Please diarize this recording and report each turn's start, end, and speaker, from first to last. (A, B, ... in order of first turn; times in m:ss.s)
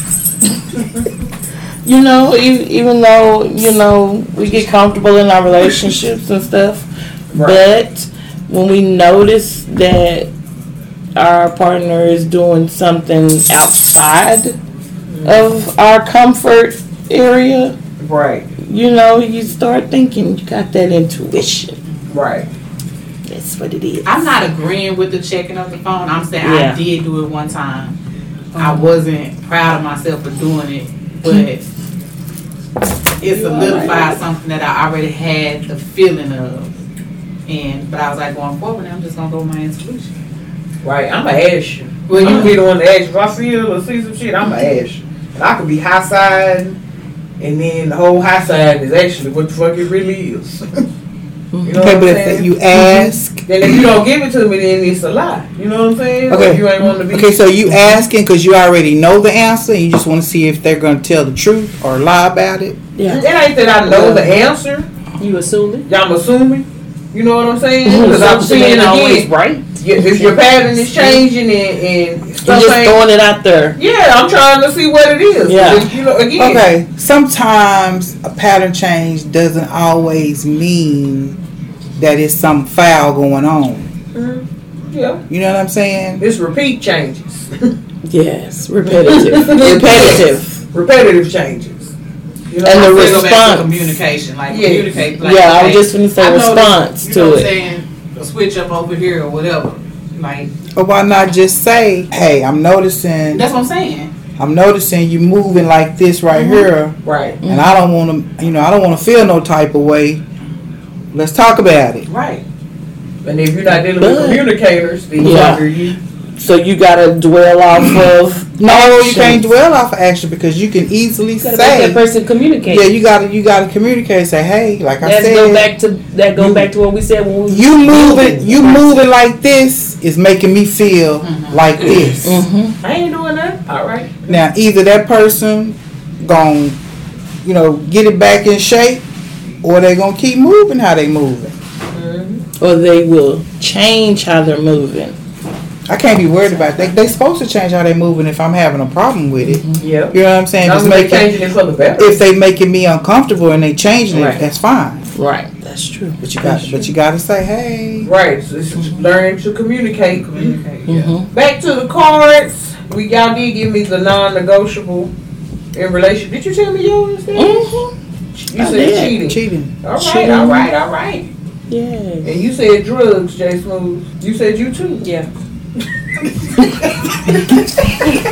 0:01.8-0:10.3 A
0:07.3-0:07.7 B
0:11.2-0:14.6 A
0:15.1-0:15.5 B
0:15.2-0:17.8 A
0:18.0-0:18.5 B
0:18.6-0:21.8 A
0:22.1-0:22.5 B
0:23.2-0:24.4 A
0:24.0-0:28.0 C
0:26.4-0:26.8 A
0:28.5-0:31.6 C
0:28.6-0:29.0 A
0:33.2-0:36.7 C
0:33.2-0:34.2 A
0:37.5-0:40.2 C
0:40.8-0:46.8 B
0:42.1-0:42.6 C
0:42.2-0:42.5 A
0:47.4-0:50.8 B
0:51.5-0:51.8 A
0:51.6-0:52.5 B
0:51.8-0:53.4 D
0:52.7-0:53.1 A
0:53.4-0:57.4 B
0:56.3-1:02.8 D
0:57.7-0:58.0 A
1:03.0-1:03.2 A
1:03.1-1:04.9 B
1:03.9-1:04.3 A
1:05.2-1:05.9 E
1:05.9-1:13.0 B
1:07.9-1:08.3 A
1:07.9-1:09.6 E
1:10.0-1:10.4 A
1:10.9-1:11.2 A
1:12.4-1:13.8 A
1:13.8-1:16.6 B
1:15.4-1:15.9 A
1:16.4-1:21.4 D
1:22.0-1:23.9 D
1:24.1-1:25.2 B
1:25.3-1:26.2 D
1:26.2-1:27.7 B
1:28.0-1:30.6 A
1:29.0-1:31.9 B
1:32.5-1:33.4 B
1:32.6-1:34.0 A
1:32.7-1:40.5 C
1:34.5-1:35.0 B
1:35.1-1:37.5 A
1:40.7-1:43.4 D
1:43.3-1:44.1 C
1:44.4-1:46.9 D
1:46.3-1:46.7 A
1:47.0-1:47.4 B
1:47.4-1:47.8 A
1:47.4-1:50.2 D
1:51.1-1:52.1 D
1:52.1-1:52.4 C
1:53.2-1:56.0 B
1:53.9-1:54.5 A
1:55.2-1:55.7 A
1:56.4-1:59.5 A
1:58.6-2:02.0 D
2:01.4-2:02.9 E
2:02.6-2:05.7 D
2:05.0-2:09.0 E
2:06.4-2:06.7 D
2:07.5-2:12.4 D
2:11.2-2:11.6 C
2:12.2-2:12.8 A
2:12.8-2:14.4 B
2:14.3-2:16.8 D
2:17.4-2:19.0 D
2:19.6-2:21.5 D
2:21.9-2:22.4 B
2:22.6-2:25.2 A
2:25.9-2:31.3 D
2:26.5-2:26.9 A
2:29.4-2:29.8 A
2:29.8-2:32.2 B
2:32.0-2:35.1 D
2:34.1-2:34.4 B
2:35.1-2:36.9 A
2:36.2-2:38.1 D
2:38.0-2:45.1 B
2:38.8-2:39.0 A
2:40.3-2:41.1 C
2:40.8-2:41.3 A
2:45.7-2:51.2 B
2:47.3-2:47.9 A
2:48.5-2:49.2 A
2:49.2-2:49.8 D
2:50.0-2:51.2 C
2:51.7-2:52.4 A
2:52.2-2:55.0 B
2:55.0-2:55.3 E